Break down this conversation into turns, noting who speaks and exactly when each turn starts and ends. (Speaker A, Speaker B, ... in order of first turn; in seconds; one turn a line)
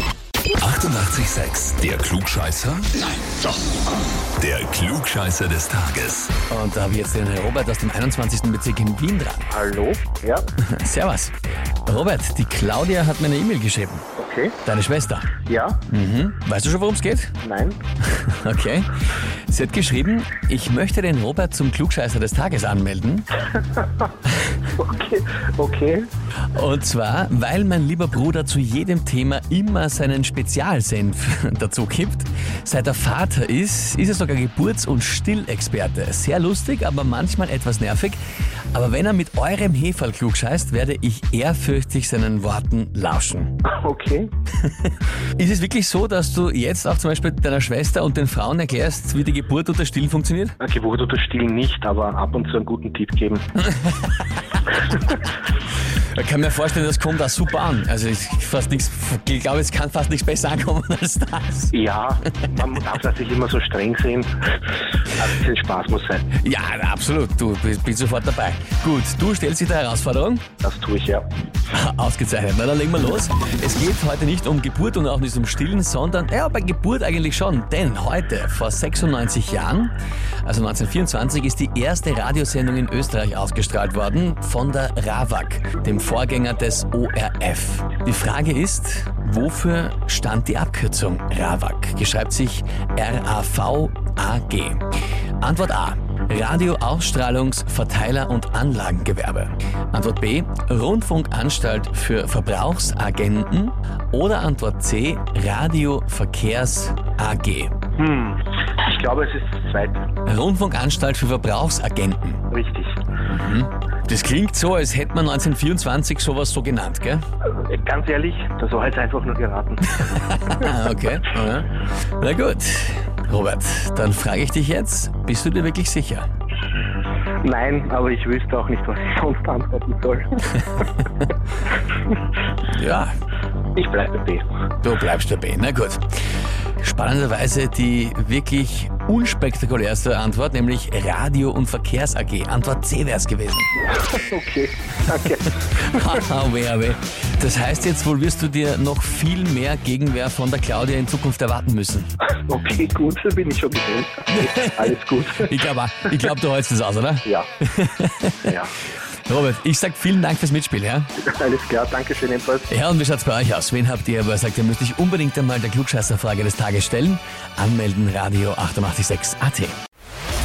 Speaker A: 0.6-3.1
Speaker A: 4.4-6.3
Speaker B: 6.5-9.5
Speaker C: 9.5-10.4
Speaker B: 10.6-11.3
Speaker B: 11.8-14.1
Speaker C: 14.2-14.6
Speaker B: 14.6-15.3
Speaker C: 15.4-15.8
Speaker B: 15.9-17.4
Speaker C: 17.4-17.8
Speaker B: 18.1-18.9
Speaker B: 19.5-23.4
Speaker C: 24.8-26.1
Speaker B: 26.5-38.2
Speaker B: 38.7-43.6
Speaker C: 43.6-44.3
Speaker B: 44.6-50.5
Speaker C: 50.6-53.4
Speaker B: 53.6-54.6
Speaker B: 56.1-61.7
Speaker C: 61.7-66.2
Speaker B: 66.3-70.5
Speaker C: 70.6-71.3
Speaker B: 71.7-79.9
Speaker B: 80.4-94.8
Speaker B: 95.4-107.8
Speaker C: 108.0-110.1
Speaker B: 110.2-112.4
Speaker C: 112.5-113.0
Speaker B: 113.3-117.2
Speaker C: 117.5-120.0
Speaker B: 120.0-126.3
Speaker C: 127.4-130.7
Speaker B: 132.7-133.1
Speaker C: 133.8-134.4
Speaker B: 134.8-136.1
Speaker B: 136.8-143.8
Speaker C: 143.9-146.2
Speaker B: 145.7-152.1
Speaker C: 152.5-155.5
Speaker B: 154.3-158.5
Speaker C: 158.4-158.7
Speaker B: 159.2-161.1
Speaker C: 161.2-162.7
Speaker B: 162.7-169.8